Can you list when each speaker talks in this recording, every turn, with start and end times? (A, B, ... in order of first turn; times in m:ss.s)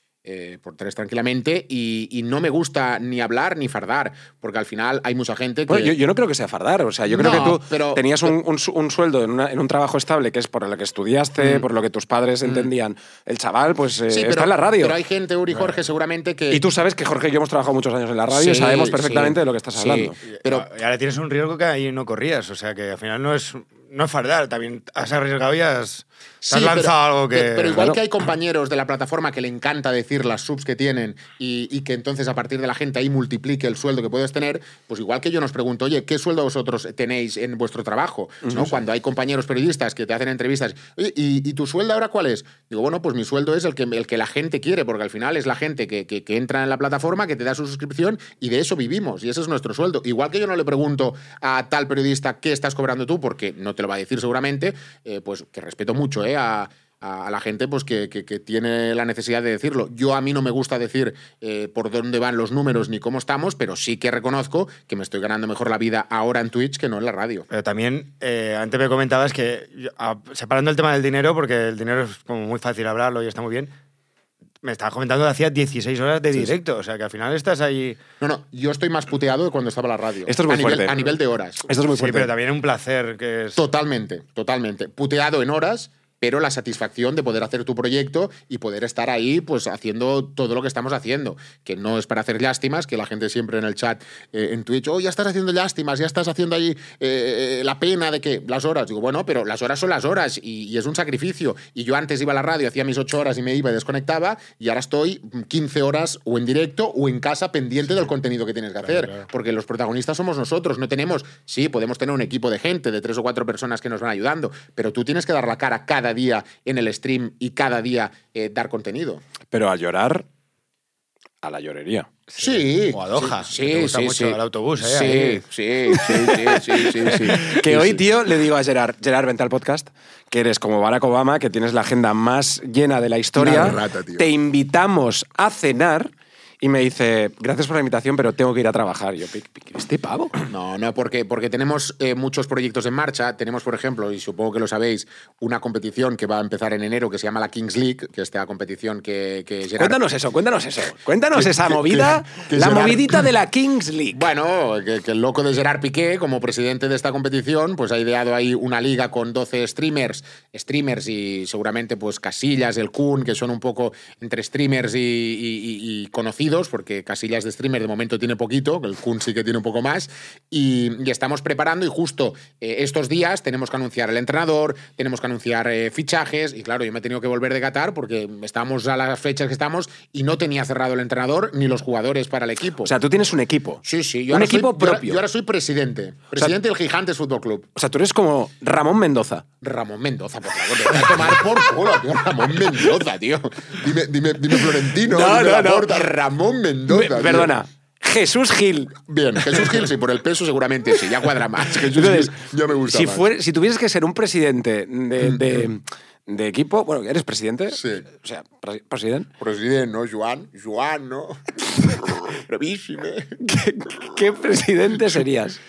0:00.2-0:05.9 A
0:05.7-0:15.0 B
0:07.1-0:08.4 A
0:11.4-0:11.6 A
0:12.4-0:12.7 A
0:14.1-0:16.6 A
0:16.5-0:20.2 B
0:18.3-0:20.7 A
0:20.3-0:27.9 C
0:26.4-1:07.5 A
0:38.4-0:38.8 B
1:07.5-1:13.7 C
1:14.6-1:18.0 C
1:18.2-1:21.7 A
1:20.3-1:21.0 B
1:21.7-1:22.3 B
1:21.9-1:23.6 C
1:23.6-1:59.2 A
1:59.5-2:00.3 B
2:01.4-2:02.1 B
2:02.3-2:05.4 C
2:02.4-2:08.0 A
2:06.0-2:20.3 B
2:07.1-2:07.6 C
2:13.4-2:14.3 A
2:20.5-2:30.0 A
2:29.8-2:34.2 B
2:31.3-2:33.3 A
2:34.1-3:02.9 A
3:02.8-3:05.2 B
3:03.8-3:07.7 A
3:07.7-3:09.4 B
3:09.6-3:17.5 A
3:10.9-3:11.3 B
3:14.5-3:16.1 B
3:16.9-3:19.8 B
3:19.0-3:23.2 A
3:21.6-3:29.3 B
3:25.2-3:25.6 A
3:27.7-3:28.1 A
3:29.4-3:33.4 A
3:33.4-3:35.6 B